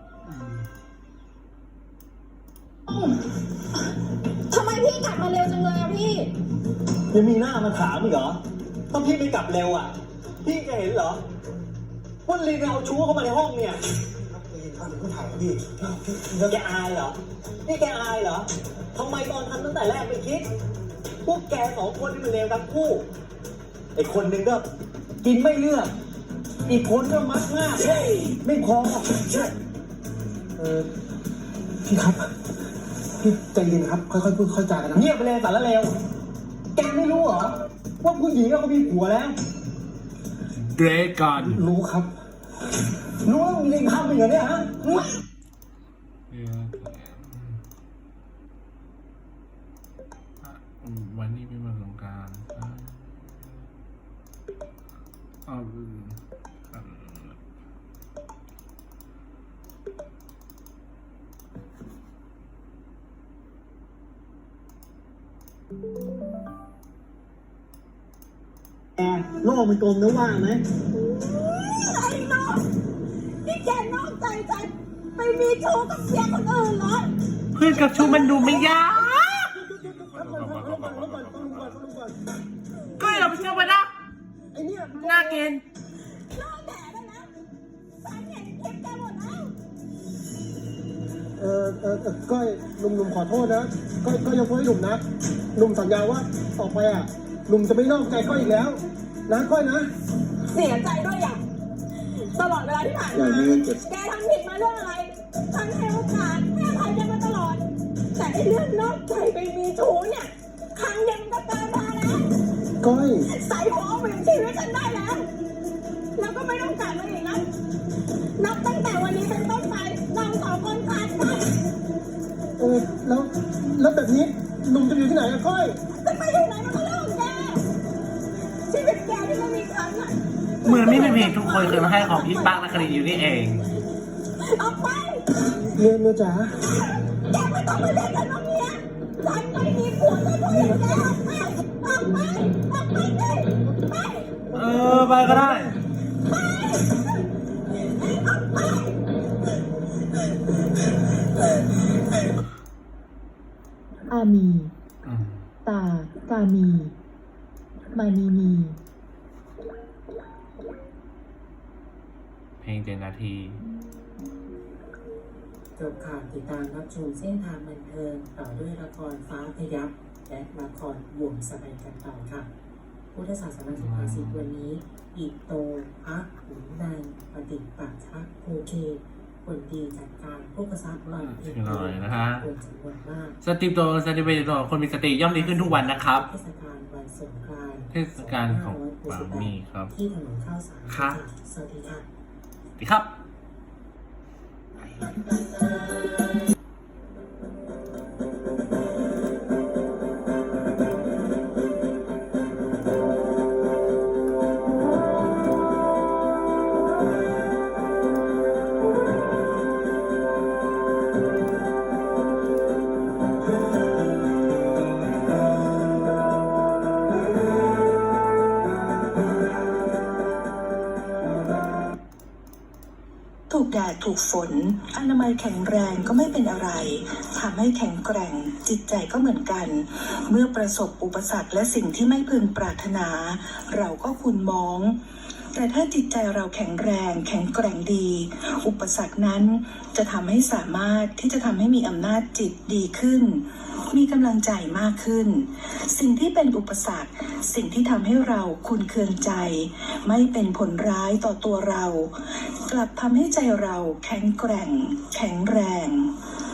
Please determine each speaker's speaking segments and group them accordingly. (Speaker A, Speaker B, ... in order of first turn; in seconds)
Speaker A: 2.9-3.2, 4.5-6.3, 71.0-72.6, 73.4-77.1, 77.7-78.8, 86.3-87.3, 88.0-89.5, 100.5-101.4, 102.3-112.2, 113.3-115.3, 116.2-117.5, 118.4-121.6, 126.0-127.6, 128.7-132.9, 134.5-135.3, 136.8-144.4, 146.3-147.2, 148.1-149.0
Speaker B: 7.1-8.4, 8.9-11.2, 12.3-13.8, 15.4-15.7, 16.4-20.5, 21.2-23.1, 24.0-24.7, 25.2-25.9, 26.7-29.3, 34.9-35.9, 36.8-39.4, 43.2-45.1, 69.0-70.6
Speaker C: 14.3-16.6, 30.6-30.9, 31.9-32.3, 33.2-35.1, 41.5-42.1, 79.5-82.2, 83.0-83.7, 84.5-85.4, 91.4-95.0, 95.5-99.9, 103.1-103.8, 112.8-113.3, 122.6-125.8, 135.6-136.6, 144.7-145.8
Speaker D: 40.5-41.6, 46.3-47.6, 50.4-53.7, 55.5-56.2, 56.7-57.4, 77.5-81.8, 83.0-83.9, 85.0-85.6, 130.6-133.7, 144.5-145.8, 155.0-155.4, 162.6-163.6, 173.7-174.5, 181.2-182.5, 183.4-186.3, 187.9-189.9, 190.9-191.2, 192.8-193.1
Speaker E: 154.1-154.7, 155.7-156.9, 157.9-158.8
Speaker F: 165.8-172.5, 173.1-183.4, 185.3-192.1
Speaker G: 223.5-235.0, 235.5-256.2